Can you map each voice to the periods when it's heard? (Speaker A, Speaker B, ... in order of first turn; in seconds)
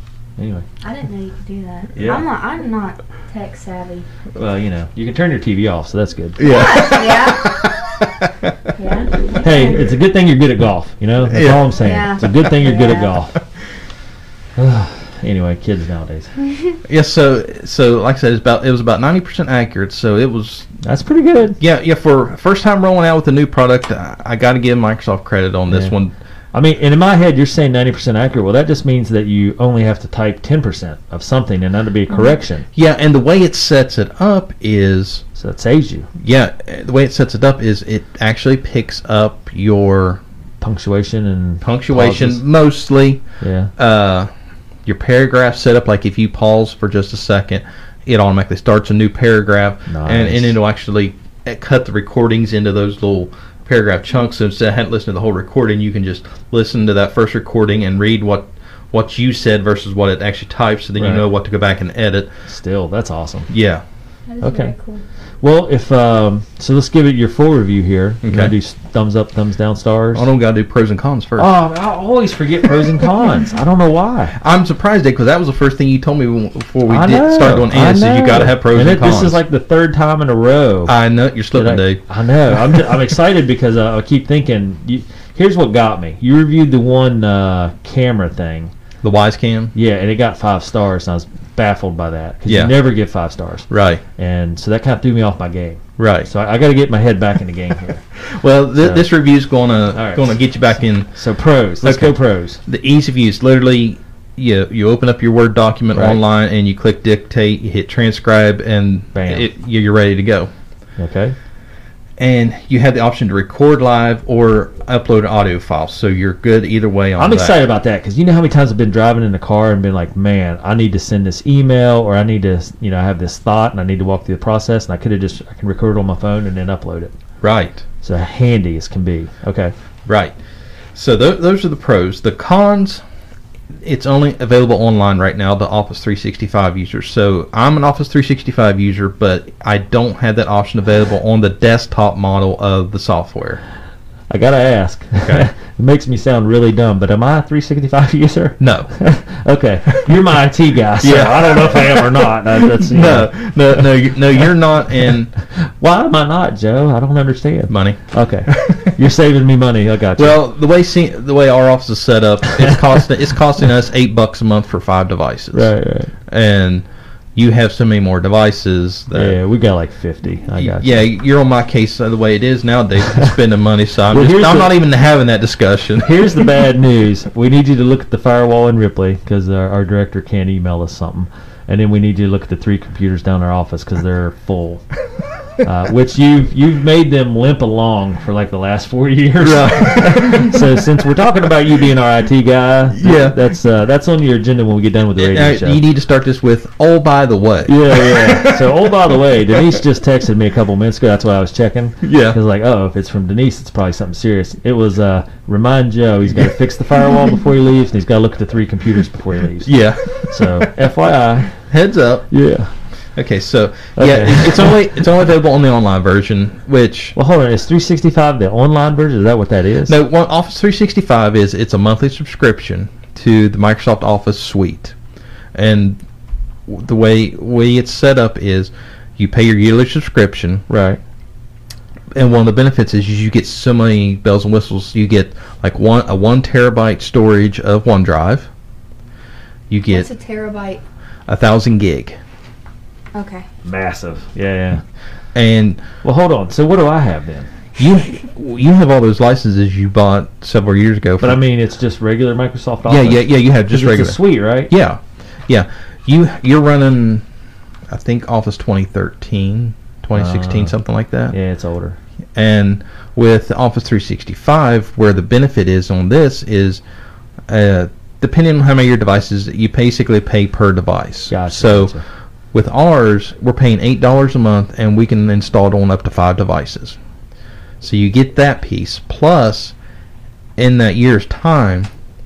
Speaker A: 0.4-0.7, 2.0-2.2, 4.4-6.5, 9.4-13.4, 14.6-16.3, 20.8-21.6, 25.7-25.9, 26.5-32.7, 35.4-36.1, 40.6-42.4, 43.4-43.7, 49.9-50.6, 61.0-61.2, 62.5-63.5, 64.4-64.7, 65.4-70.3, 71.4-74.3, 76.9-80.9, 81.5-88.7, 89.7-98.0, 98.8-99.1, 99.9-100.3, 101.2-102.6, 105.9-106.2, 109.1-109.5, 111.0-111.3, 117.2-127.1, 128.0-129.7, 144.3-153.8, 155.5-160.4, 165.5-166.1, 169.1-171.0, 174.1-174.8, 176.0-184.8, 185.6-195.8, 197.7-211.6, 212.3-212.7, 214.0-214.8, 217.2-220.0, 230.7-231.0, 243.6-244.8, 246.0-247.5, 251.2-254.7, 260.1-260.8, 261.3-262.0, 271.3-272.0
Speaker B: 0.8-4.1, 6.4-7.7, 8.8-9.9, 11.8-13.2, 64.3-65.0, 239.9-240.8, 243.1-243.5
Speaker C: 6.4-8.6, 11.3-11.7, 16.9-20.7, 21.6-26.1, 32.7-35.2, 36.2-40.2, 41.6-43.2, 43.8-44.3, 44.9-62.3, 63.5-63.8, 68.2-68.5, 70.1-71.5, 74.4-79.4, 80.9-82.0, 89.0-89.7, 92.5-92.8, 93.7-94.0, 96.0-96.3, 98.2-101.1, 101.8-110.5, 112.2-117.6, 127.4-127.8, 130.1-130.3, 130.9-133.0, 133.8-143.6, 148.6-148.9, 151.0-155.3, 157.7-158.9, 160.2-165.7, 166.3-169.4, 170.6-176.4, 189.4-190.6, 192.9-193.4, 195.2-198.8, 202.0-202.4, 209.6-210.7, 211.7-212.3, 213.2-217.2, 219.9-224.9, 225.6-226.0, 226.7-230.7, 232.1-238.5, 239.7-240.1, 241.3-242.2, 245.3-245.8, 247.8-251.4, 252.9-257.2, 257.9-261.4, 262.4-266.8, 267.5-271.9, 272.5-277.0, 277.8-279.7, 280.6-281.9